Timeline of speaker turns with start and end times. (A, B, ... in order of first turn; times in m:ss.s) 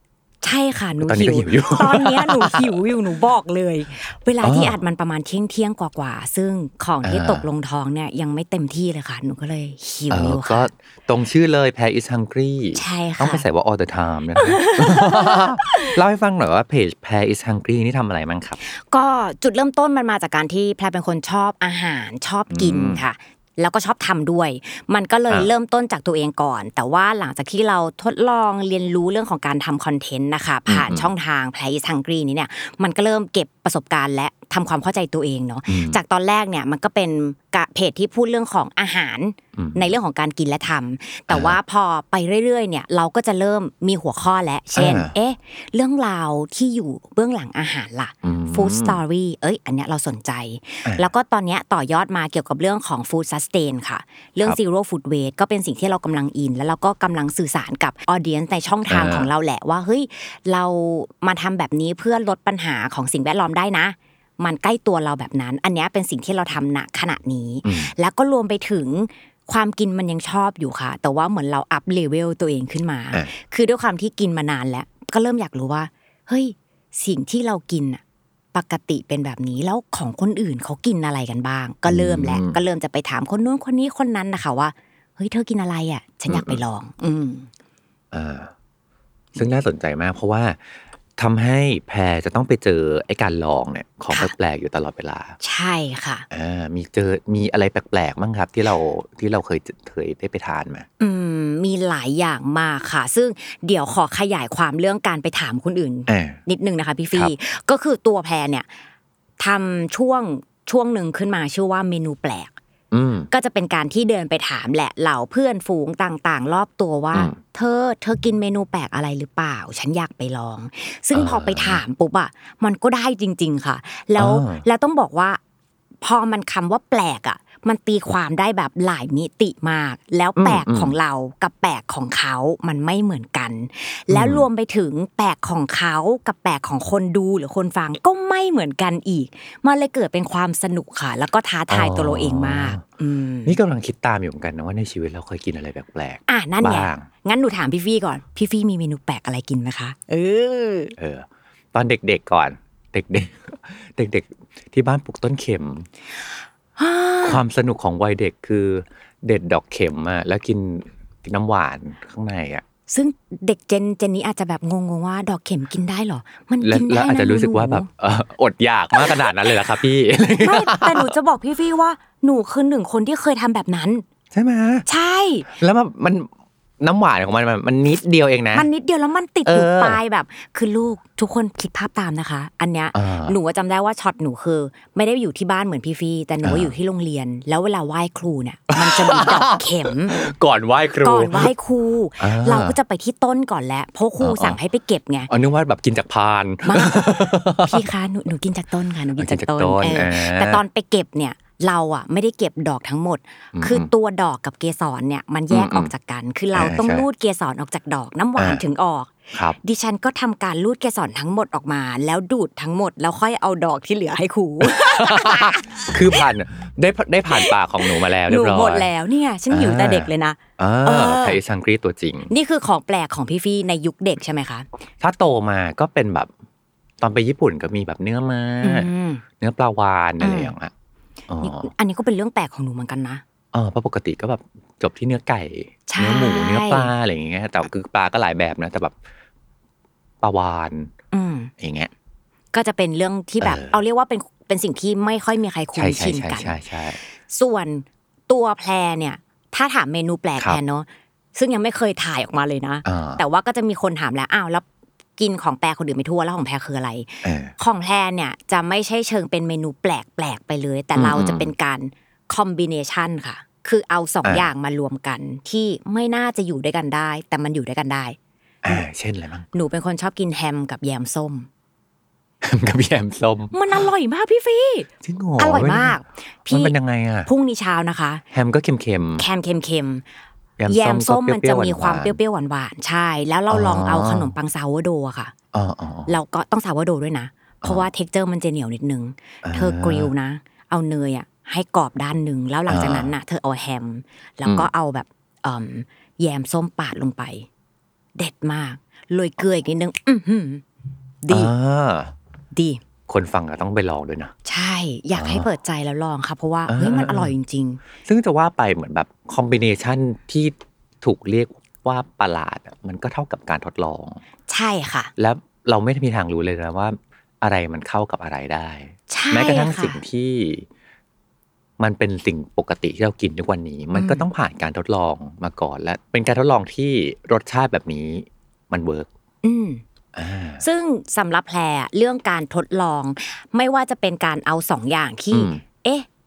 0:00.4-0:10.7 A
0:01.0-0:02.8 B
0:04.4-0:04.8 B
0:07.0-0:07.4 B
0:10.1-0:18.6 B
0:12.8-0:13.5 A
0:14.4-0:15.9 A
0:18.6-1:18.0 A
0:22.5-0:23.0 B
0:30.7-0:31.1 B
0:35.7-0:36.0 B
0:39.6-0:39.9 B
0:41.3-0:41.6 B
0:44.8-0:45.1 B
0:48.2-0:49.0 B
0:58.9-0:59.3 B
1:07.6-1:07.9 B
1:18.5-1:27.5 A
1:21.9-1:22.6 B
1:26.3-1:26.6 B
1:28.1-1:28.5 B
1:29.4-1:35.4 B
1:35.4-1:36.3 A
1:36.3-1:40.9 B
1:41.0-1:48.7 A
1:46.1-1:46.4 B
1:49.4-1:52.6 A
1:52.9-1:53.3 B
1:53.3-2:05.4 A
1:57.1-1:57.4 B
2:01.1-2:01.8 B
2:04.2-2:04.6 B
2:06.0-2:23.6 A
2:10.4-2:10.9 B
2:14.1-2:14.5 B
2:21.7-2:22.8 B
2:23.4-2:27.1 B
2:26.3-2:31.0 A
2:31.0-2:35.9 B
2:36.8-2:37.4 A
2:37.2-2:42.6 B
2:42.9-2:47.9 A
2:46.6-2:51.1 B
2:49.0-2:49.3 A
2:50.4-2:54.0 A
2:54.3-2:54.9 B
2:54.9-2:55.5 A
2:55.5-2:58.7 B
2:58.5-3:10.2 A
2:59.5-3:00.0 B
3:02.9-3:03.4 B
3:06.4-3:06.7 B
3:08.7-3:11.5 B
3:11.0-3:15.3 A
3:12.2-3:12.8 B
3:14.2-3:14.6 B
3:15.3-3:17.8 B
3:16.7-3:36.2 A
3:19.2-3:20.6 B
3:23.5-3:23.9 B
3:25.5-3:25.9 B
3:26.5-3:27.0 B
3:28.4-3:28.6 B
3:34.6-3:38.9 B
3:37.3-3:41.4 A
3:39.5-3:42.3 B
3:42.3-3:44.7 A
3:45.0-3:46.3 B
3:47.0-3:50.7 B
3:48.6-3:49.2 A
3:50.2-3:50.5 A
3:51.3-3:51.7 B
3:51.4-3:53.2 A
3:53.5-3:59.0 B
3:55.9-3:56.9 A
4:00.2-4:00.9 B
4:01.1-4:01.5 A
4:01.6-4:01.9 B
4:02.5-4:06.6 A
4:03.4-4:03.8 B
4:05.8-4:07.0 B
4:07.3-4:14.7 A
4:12.8-4:13.2 B
4:15.2-4:28.2 A
4:17.2-4:17.5 B
4:21.0-4:21.5 B
4:24.2-4:24.5 B
4:28.6-4:29.5 B
4:29.5-4:31.5 A
4:32.4-4:33.6 B
4:33.5-4:36.7 A
4:35.0-4:37.3 B
4:37.3-4:38.2 A
4:38.3-4:39.2 B
4:39.2-4:40.0 A
4:40.6-4:42.2 B
4:40.7-4:45.3 A
4:43.5-4:44.3 B
4:45.5-4:46.2 B
4:46.1-4:57.5 A
4:49.4-4:50.1 B
4:52.7-4:53.1 B
4:58.2-5:00.6 A
5:01.2-5:01.5 A
5:01.3-5:02.1 B
5:02.5-5:02.8 A
5:03.1-5:04.3 B
5:04.5-5:07.8 A
5:05.2-5:05.5 B
5:06.7-5:07.3 B
5:08.0-5:14.2 B
5:14.5-5:15.1 A
5:15.2-5:20.7 B
5:19.1-5:20.0 A
5:21.8-5:29.1 B
5:23.9-5:24.2 A
5:29.4-5:29.8 A
5:30.2-5:30.6 B
5:30.6-5:36.1 A
5:35.3-5:35.6 B